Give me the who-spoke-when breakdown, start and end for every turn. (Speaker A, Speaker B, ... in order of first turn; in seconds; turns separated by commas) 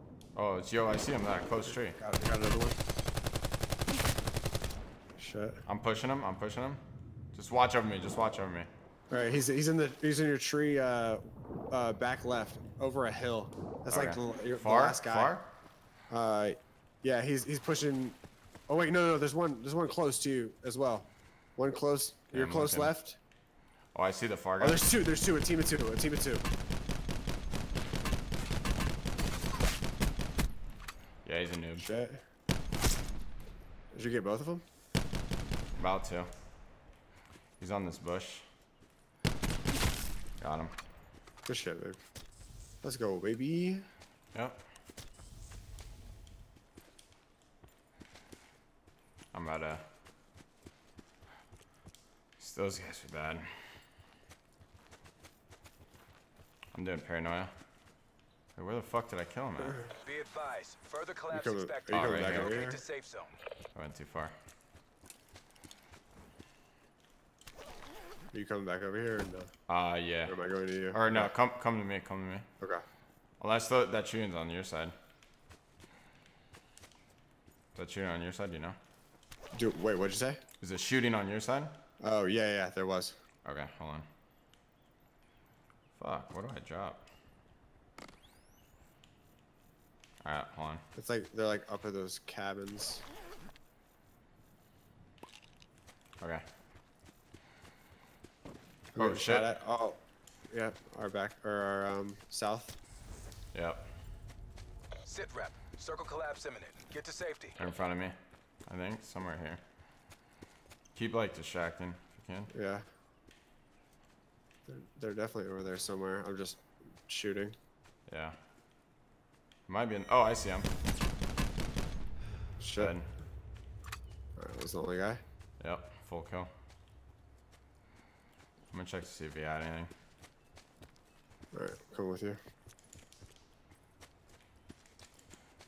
Speaker A: 0.3-2.0, Speaker B: 1.6-2.8, Speaker B: 5.2-5.6, Speaker A: 5.7-6.8, Speaker A: 7.3-8.7, Speaker B: 9.1-15.4, Speaker A: 13.9-15.5, Speaker B: 16.1-18.2, Speaker B: 18.7-23.2, Speaker A: 22.3-22.9, Speaker A: 23.9-24.8, Speaker B: 24.6-26.4, Speaker A: 31.2-31.9, Speaker B: 31.8-32.2, Speaker B: 33.9-34.6, Speaker A: 35.8-36.3, Speaker A: 37.6-38.5, Speaker A: 40.4-40.7, Speaker B: 41.5-42.0, Speaker B: 42.8-43.9, Speaker A: 44.3-44.6, Speaker A: 49.3-49.8, Speaker A: 52.4-53.5, Speaker A: 56.7-57.5, Speaker A: 58.5-59.9, Speaker C: 60.0-63.4, Speaker B: 61.3-62.8, Speaker A: 61.9-62.6, Speaker A: 63.7-64.3, Speaker B: 68.3-69.5, Speaker A: 69.7-70.4, Speaker B: 70.2-71.3, Speaker A: 70.9-72.5, Speaker A: 73.4-74.9, Speaker A: 77.7-78.8, Speaker B: 79.5-80.4, Speaker A: 80.6-81.8, Speaker B: 82.0-83.2, Speaker A: 83.4-84.0, Speaker A: 86.0-87.0, Speaker A: 90.2-90.8, Speaker B: 91.0-93.0, Speaker B: 98.9-100.0, Speaker A: 99.0-99.5, Speaker B: 100.5-102.8, Speaker A: 103.5-103.9, Speaker C: 105.0-107.6, Speaker A: 107.6-108.1, Speaker A: 108.7-109.6, Speaker A: 110.9-112.5, Speaker B: 112.5-112.9, Speaker B: 114.7-117.6, Speaker A: 118.1-118.3, Speaker A: 119.7-120.7, Speaker B: 122.6-123.0, Speaker A: 122.8-123.1, Speaker B: 124.4-125.2, Speaker A: 125.6-126.5, Speaker A: 128.7-129.9, Speaker B: 131.5-132.4